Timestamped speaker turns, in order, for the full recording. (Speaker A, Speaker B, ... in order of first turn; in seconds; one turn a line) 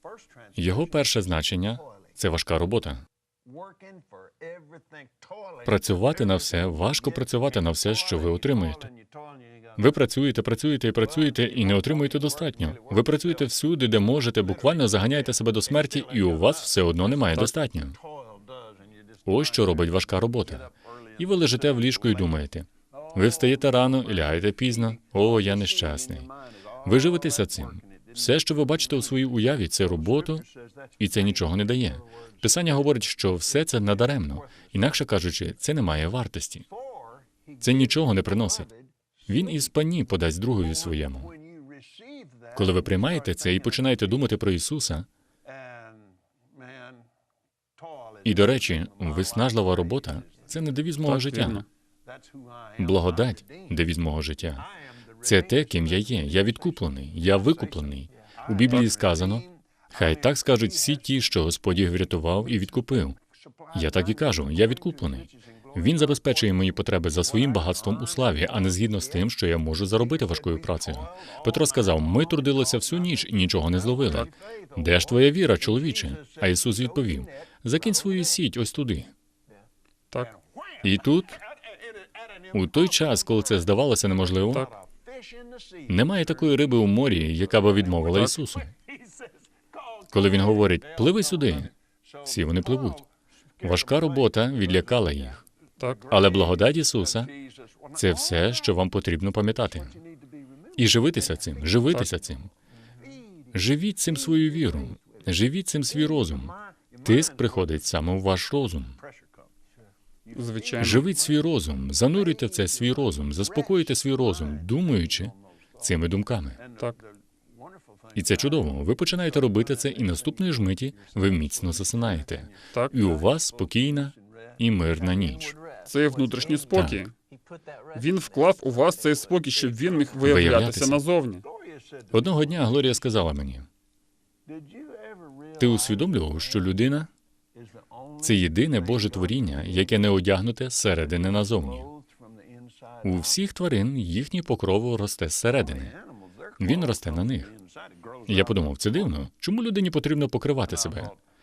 Speaker A: 0.6-3.0
Speaker A: 5.6-8.9
Speaker A: 9.8-18.0
Speaker A: 19.3-26.3
Speaker A: 26.8-30.4
Speaker A: 31.0-36.7
Speaker A: 37.6-38.7
Speaker A: 39.3-41.3
Speaker A: 42.5-45.1
Speaker A: 48.2-51.6
Speaker B: 51.0-51.6
Speaker A: 52.8-54.7
Speaker A: 55.2-63.2
Speaker A: 63.7-79.1
Speaker A: 80.8-81.4
Speaker A: 82.5-84.7
Speaker A: 85.9-88.7
Speaker A: 90.1-91.7
Speaker A: 92.2-93.0
Speaker A: 93.6-95.4
Speaker A: 96.1-97.3
Speaker A: 97.9-100.0
Speaker A: 100.8-102.5
Speaker A: 103.5-109.0
Speaker B: 110.3-111.1
Speaker A: 110.8-116.6
Speaker A: 118.1-125.6
Speaker B: 125.9-127.1
Speaker A: 126.7-127.0
Speaker B: 128.0-131.4
Speaker A: 130.2-131.0
Speaker A: 132.1-133.7
Speaker A: 135.6-137.1
Speaker A: 138.2-141.9
Speaker A: 143.0-145.9
Speaker A: 146.6-147.5
Speaker A: 148.3-151.2